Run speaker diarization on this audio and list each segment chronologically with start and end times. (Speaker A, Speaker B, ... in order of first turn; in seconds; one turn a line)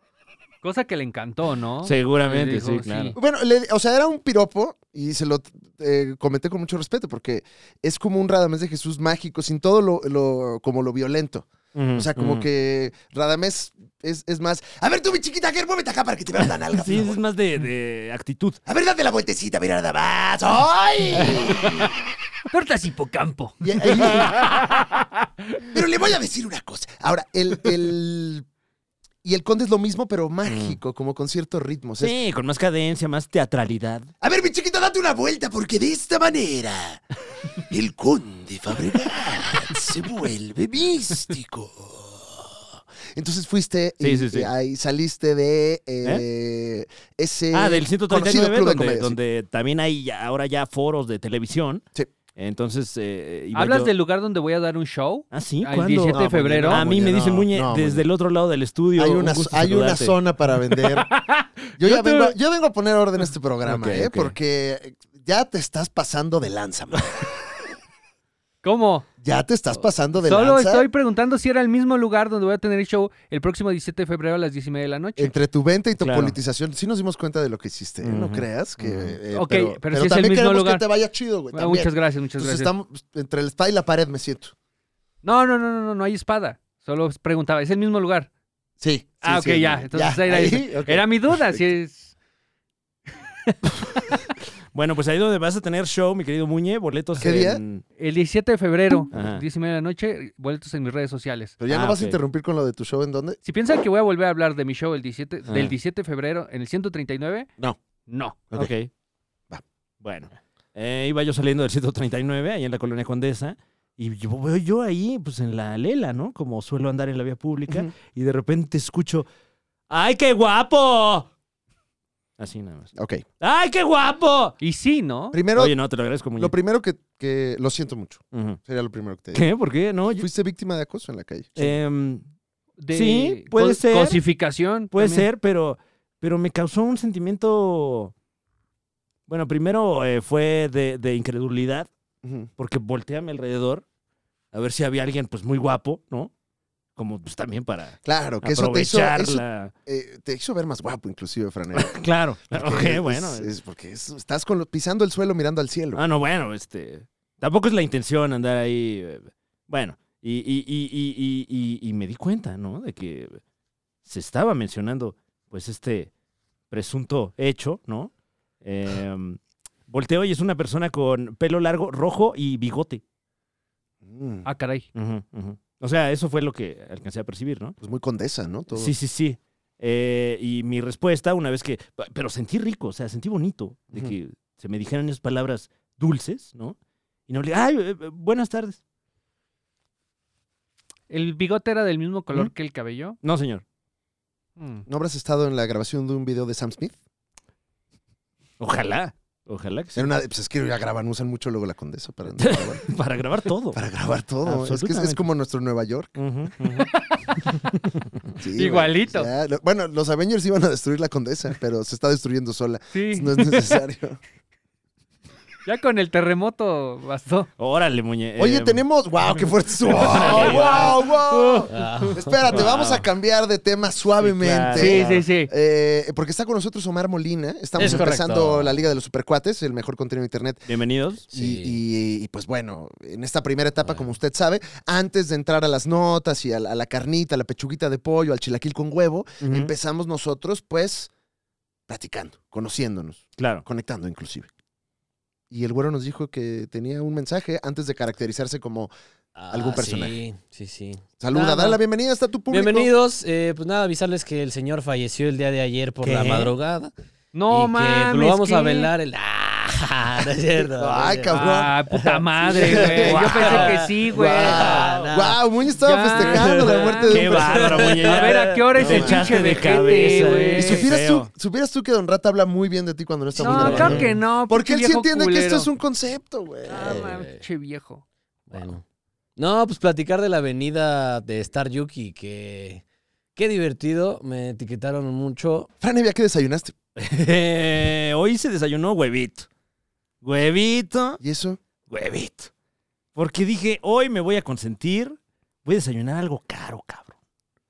Speaker A: 0.6-3.2
Speaker B: 1.8-3.1
Speaker C: 3.1-17.2
Speaker B: 11.7-12.4
Speaker B: 16.8-18.6
Speaker C: 18.6-22.0
Speaker A: 22.5-25.0
Speaker C: 23.6-24.4
Speaker C: 25.6-28.4
Speaker C: 29.2-32.2
Speaker B: 30.4-30.8
Speaker B: 32.0-34.1
Speaker C: 34.2-37.0
Speaker C: 37.7-42.6
Speaker C: 43.1-49.2
Speaker B: 44.0-44.5
Speaker B: 47.5-51.8
Speaker B: 52.4-53.9
Speaker A: 53.5-56.8
Speaker B: 55.3-60.2
Speaker C: 56.1-58.0
Speaker C: 59.0-61.1
Speaker A: 60.8-62.3
Speaker C: 61.8-67.4
Speaker B: 63.6-64.3
Speaker A: 68.6-69.0
Speaker C: 69.2-70.9
Speaker A: 70.2-75.3
Speaker C: 75.2-84.5
Speaker B: 76.0-76.4
Speaker B: 78.0-79.2
Speaker A: 79.3-80.8
Speaker A: 81.5-82.7
Speaker A: 85.2-88.3
Speaker C: 88.8-91.6
Speaker A: 89.2-92.1
Speaker B: 94.7-97.8
Speaker C: 97.2-97.6
Speaker A: 98.0-101.6
Speaker B: 99.1-99.4
Speaker C: 101.6-103.4
Speaker B: 101.7-102.2
Speaker A: 103.4-107.5
Speaker B: 105.5-105.7
Speaker A: 108.1-108.4
Speaker B: 108.5-108.9
Speaker B: 110.0-119.3
Speaker B: 119.9-121.3
Speaker B: 122.4-124.5
Speaker C: 122.9-123.2
Speaker A: 124.6-125.4
Speaker C: 125.3-125.8
Speaker B: 125.5-126.5
Speaker C: 126.4-129.4
Speaker B: 128.3-128.6
Speaker B: 129.3-130.3
Speaker C: 130.1-131.7
Speaker B: 131.6-132.2
Speaker A: 132.8-135.3
Speaker B: 132.9-134.2
Speaker B: 134.9-138.1
Speaker B: 139.3-141.9
Speaker C: 142.2-142.5
Speaker B: 142.6-143.8
Speaker B: 144.5-146.3
Speaker B: 146.9-149.7
Speaker C: 148.0-156.0
Speaker B: 151.7-153.5
Speaker B: 155.9-163.4
Speaker B: 164.0-166.1
Speaker B: 166.7-168.1
Speaker B: 168.6-173.0
Speaker C: 174.0-174.5
Speaker A: 174.4-174.9
Speaker B: 174.9-177.8
Speaker C: 177.8-178.9
Speaker B: 178.7-186.8
Speaker B: 187.3-188.8
Speaker A: 191.1-193.2
Speaker B: 193.2-193.6
Speaker A: 194.6-194.8
Speaker C: 194.8-196.9
Speaker B: 198.6-200.1
Speaker C: 199.9-202.8
Speaker B: 202.4-203.8
Speaker C: 203.7-206.2
Speaker B: 204.4-205.2
Speaker B: 206.2-206.9
Speaker C: 208.4-214.2
Speaker A: 208.6-209.3
Speaker A: 212.9-213.7
Speaker A: 215.6-217.5
Speaker B: 217.6-218.8
Speaker C: 218.4-230.7
Speaker B: 220.0-220.9
Speaker A: 220.2-221.7
Speaker D: 220.4-220.8
Speaker D: 221.7-223.0
Speaker B: 224.2-225.2
Speaker A: 224.8-225.5
Speaker D: 227.8-228.8
Speaker B: 230.7-231.2
Speaker C: 231.3-241.1
Speaker D: 231.3-231.8
Speaker B: 239.4-239.7
Speaker C: 241.9-244.5
Speaker B: 243.4-243.6
Speaker C: 245.5-248.9
Speaker D: 249.3-251.7
Speaker C: 249.5-250.2
Speaker C: 251.2-252.9
Speaker D: 252.5-256.9
Speaker B: 256.0-256.5
Speaker A: 257.3-258.9
Speaker D: 257.5-261.3
Speaker C: 260.6-261.8
Speaker A: 261.3-264.8
Speaker D: 261.9-265.4
Speaker C: 262.5-268.1
Speaker B: 263.0-263.9
Speaker B: 264.6-265.1
Speaker A: 265.8-270.9
Speaker B: 267.1-271.3
Speaker D: 267.6-268.1
Speaker D: 268.8-269.3
Speaker C: 268.8-269.2
Speaker C: 270.6-277.1
Speaker D: 273.4-274.2
Speaker A: 273.4-275.7
Speaker B: 273.8-274.1
Speaker A: 276.7-278.0
Speaker D: 276.7-277.4
Speaker D: 278.5-278.8
Speaker D: 279.4-282.8
Speaker D: 283.4-285.7
Speaker C: 285.8-286.7
Speaker B: 287.0-289.5
Speaker B: 290.2-291.2
Speaker C: 291.2-291.6
Speaker B: 291.9-292.5
Speaker B: 293.1-297.2